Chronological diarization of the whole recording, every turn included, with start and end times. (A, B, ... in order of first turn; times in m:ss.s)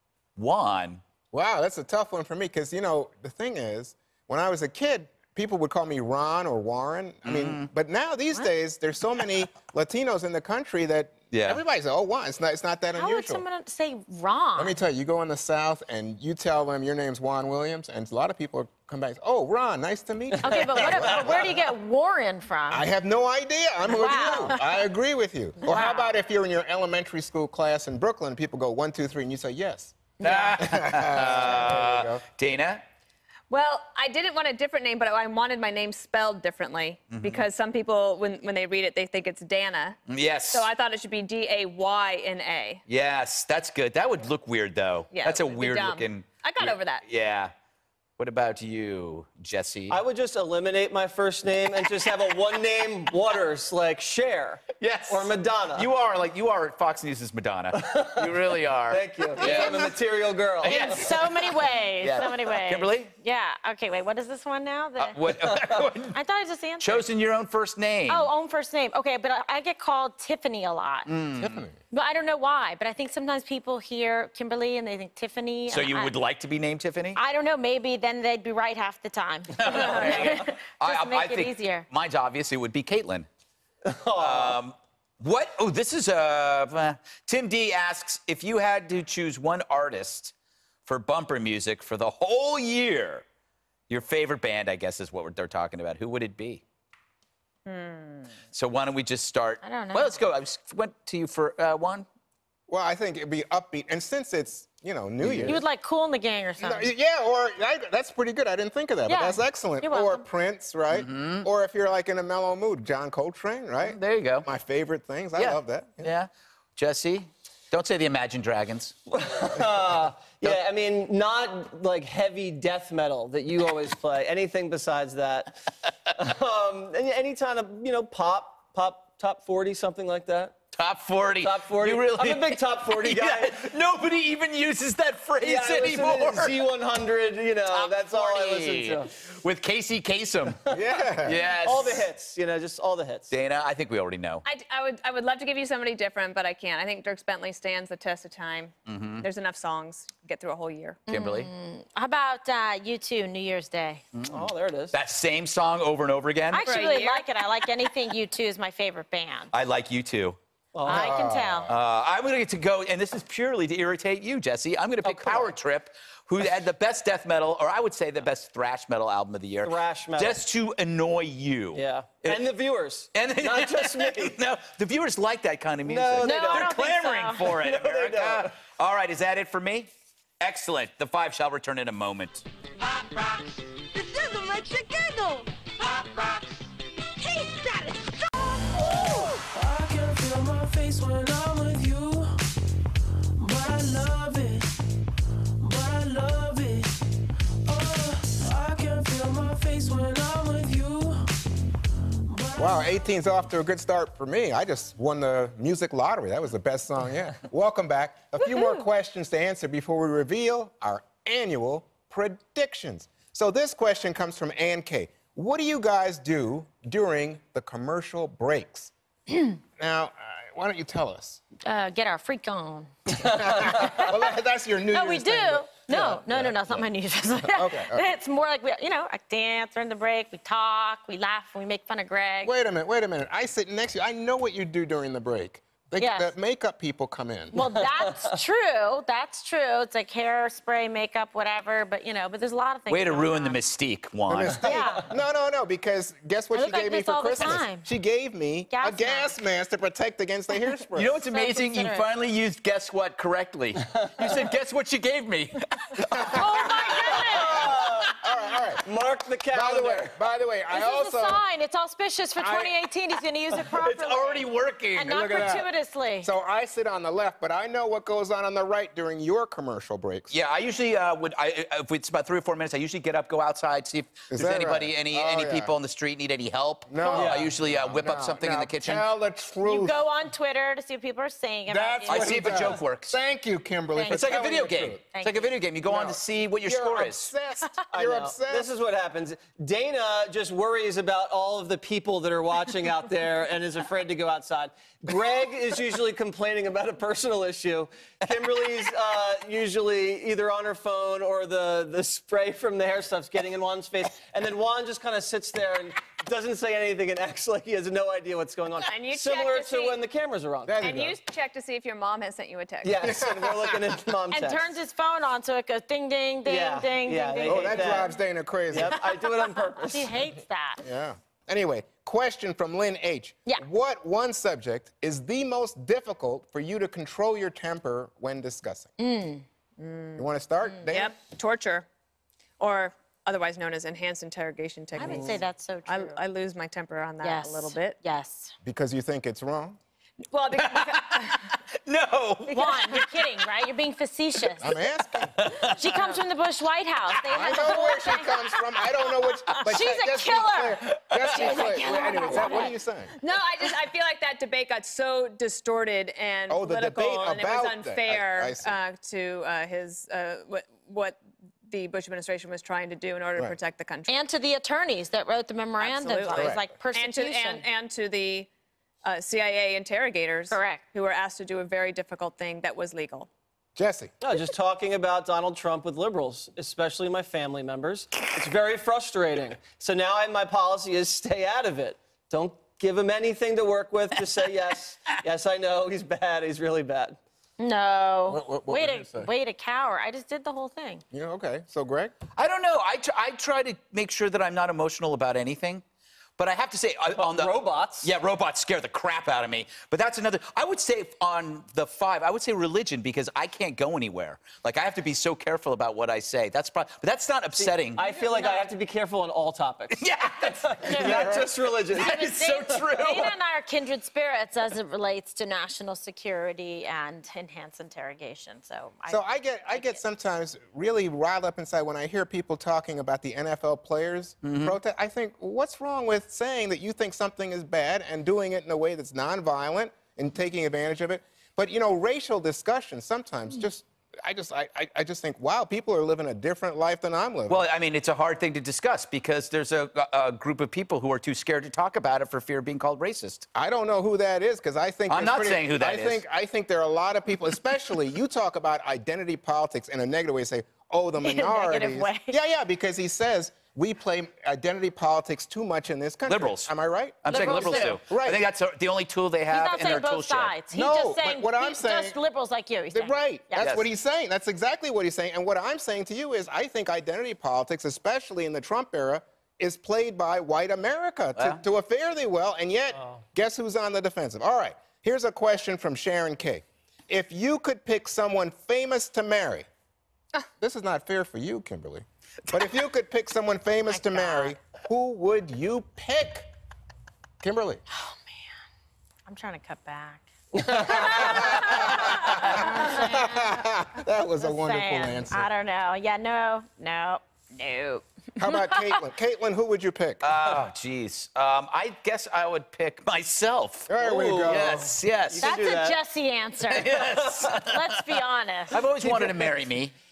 0:00.4-0:01.0 A
0:01.3-0:13.4 B
0:07.2-0:07.7 A
0:11.3-0:11.6 A
0:12.9-0:14.8 C
0:14.6-0:21.6 B
0:20.4-0:22.9 C
0:22.7-0:32.2 B
0:23.9-0:24.8 C
0:25.6-0:26.1 C
0:30.2-0:30.6 C
0:30.2-0:32.8 A
0:33.5-0:40.0 D
0:37.1-0:37.5 A
0:40.1-0:40.7 A
0:40.5-0:42.8 D
0:42.9-0:47.5 A
0:45.1-0:47.0 D
0:48.2-0:50.0 A
0:49.9-0:55.9 E
0:54.8-1:00.0 A
0:57.7-1:01.1 E
0:59.4-0:59.9 C
1:00.6-1:03.1 A
1:00.6-1:05.2 C
1:05.0-1:06.2 A
1:05.4-1:05.9 E
1:06.1-1:07.0 C
1:06.8-1:08.3 A
1:08.1-1:11.1 C
1:11.1-1:11.6 A
1:11.4-1:11.8 B
1:11.9-1:16.1 C
1:15.7-1:17.2 A
1:17.2-1:21.8 C
1:19.6-1:23.3 A
1:19.7-1:20.2 D
1:23.8-1:24.6 E
1:24.1-1:30.3 A
1:30.9-1:33.2 A
1:33.9-1:36.6 A
1:37.6-1:38.3 D
1:38.5-1:42.1 A
1:39.6-1:40.2 C
1:42.7-1:45.6 B
1:45.2-1:45.6 A
1:45.4-1:46.9 C
1:46.6-1:56.1 B
1:49.1-1:50.2 C
1:50.9-1:51.5 A
1:53.8-1:54.5 A
1:55.4-1:59.0 A
1:59.1-2:05.6 E
2:06.1-2:10.6 E
2:10.7-2:16.6 A
2:11.4-2:13.7 E
2:15.4-2:19.1 E
2:17.7-2:20.6 A
2:20.7-2:21.4 B
2:21.2-2:22.1 A
2:21.6-2:23.3 E
2:23.3-2:24.4 A
2:24.4-2:31.0 D
2:28.9-2:29.3 A
2:31.1-2:34.0 C
2:31.1-2:31.5 A
2:34.1-2:36.7 A
2:34.3-2:35.0 E
2:36.5-2:39.5 C
2:36.6-2:37.3 D
2:39.5-2:40.4 A
2:40.8-2:41.1 E
2:40.9-2:41.7 C
2:40.9-2:41.8 B
2:41.7-2:52.4 A
2:45.0-2:45.5 E
2:49.6-2:50.4 E
2:51.7-2:54.4 E
2:53.1-2:59.9 A
2:55.8-2:56.8 E
2:56.2-2:57.5 C
2:57.5-2:58.5 E
3:00.4-3:02.5 A
3:04.0-3:05.4 F
3:07.4-3:07.9 F
3:08.8-3:12.4 G
3:13.4-3:14.8 G
3:15.6-3:17.0 G
3:17.7-3:21.3 G
3:22.3-3:23.0 G
3:22.6-3:38.9 B
3:28.5-3:28.8 C
3:39.8-3:41.4 B
3:41.6-3:44.1 C
3:43.1-3:46.9 B
3:44.9-3:52.5 C
3:47.4-3:48.1 B
3:52.4-3:57.6 B
3:56.0-3:56.3 C
3:57.5-4:03.6 C
3:57.6-3:58.4 E
4:02.9-4:04.6 A
4:04.3-4:11.2 B
4:04.6-4:05.1 C
4:06.5-4:07.9 C
4:08.7-4:09.3 C
4:11.0-4:16.9 A
4:11.3-4:12.1 C
4:16.2-4:17.5 B
4:16.3-4:17.7 C
4:17.2-4:18.2 E
4:18.1-4:18.9 B
4:18.8-4:20.2 E
4:19.5-4:21.4 B
4:20.7-4:26.3 C
4:22.4-4:22.7 B
4:23.7-4:25.6 A
4:25.0-4:25.7 B
4:26.2-4:30.3 B
4:30.3-4:39.1 A
4:34.3-4:35.7 B
4:36.9-4:40.0 B
4:37.1-4:37.5 E
4:39.6-4:42.7 C
4:41.7-4:45.0 B
4:42.1-4:43.2 A
4:44.0-4:44.6 C
4:44.1-4:47.3 A
4:45.1-4:45.5 C
4:45.9-4:48.7 B
4:47.9-5:10.8 E
5:08.9-5:10.0 D
5:10.7-5:11.2 B
5:10.8-5:13.1 D
5:12.8-5:14.7 E
5:13.0-5:13.8 B
5:14.3-5:18.1 C
5:16.4-5:18.1 E
5:17.4-5:19.0 B
5:18.7-5:20.1 E
5:19.1-5:20.8 C
5:20.8-5:28.9 B
5:29.0-5:29.4 C
5:29.8-5:30.2 D
5:30.2-5:31.2 B
5:30.9-5:31.9 D
5:32.6-5:38.0 D
5:35.0-5:36.2 C
5:35.0-5:35.3 B
5:37.2-5:38.5 C
5:38.6-5:39.8 B
5:40.3-5:41.6 D
5:40.6-5:43.3 A
5:42.5-5:42.9 D
5:42.5-5:44.7 C
5:44.6-5:45.4 B
5:45.3-5:45.8 A
5:45.7-5:52.8 C
5:47.3-5:53.1 B
5:47.3-5:47.7 A
5:51.1-5:51.8 A
5:53.2-6:04.2 D
5:56.5-5:58.8 B
6:04.1-6:07.6 C
6:05.8-6:08.5 D
6:06.3-6:06.6 B
6:09.0-6:13.3 D
6:10.5-6:10.8 C
6:13.8-6:14.1 B
6:14.2-6:27.2 E
6:27.6-6:31.0 C
6:28.3-6:29.3 B
6:31.1-6:32.2 B
6:32.4-6:35.8 A
6:36.4-6:48.0 A
6:37.2-6:38.1 E
6:47.6-6:52.2 E
6:48.1-6:48.7 C
6:50.0-6:53.3 A
6:50.9-6:51.3 C
6:51.9-7:00.0 C
6:59.1-7:17.6 B
7:04.4-7:04.8 A
7:17.5-7:23.5 A
7:23.6-7:38.4 B
7:25.1-7:26.2 A
7:31.2-7:32.4 C
7:36.3-7:36.7 A
7:37.2-7:40.5 A
7:37.3-7:38.0 C
7:39.5-7:43.6 C
7:40.7-7:42.2 B
7:42.9-7:59.7 B
7:43.6-7:43.9 A
7:51.4-7:51.6 A
8:00.6-8:06.5 B
8:03.9-8:04.6 C
8:07.4-8:07.8 B
8:07.9-8:08.4 C
8:09.3-8:13.6 C
8:10.6-8:11.5 E
8:10.7-8:15.5 B
8:14.4-8:19.0 C
8:18.4-8:20.3 B
8:20.2-8:25.5 A
8:23.9-8:24.9 B
8:24.0-8:26.0 E
8:25.4-8:28.8 C
8:26.7-8:28.0 A
8:27.1-8:27.6 E
8:28.7-8:29.9 A
8:29.0-8:29.6 E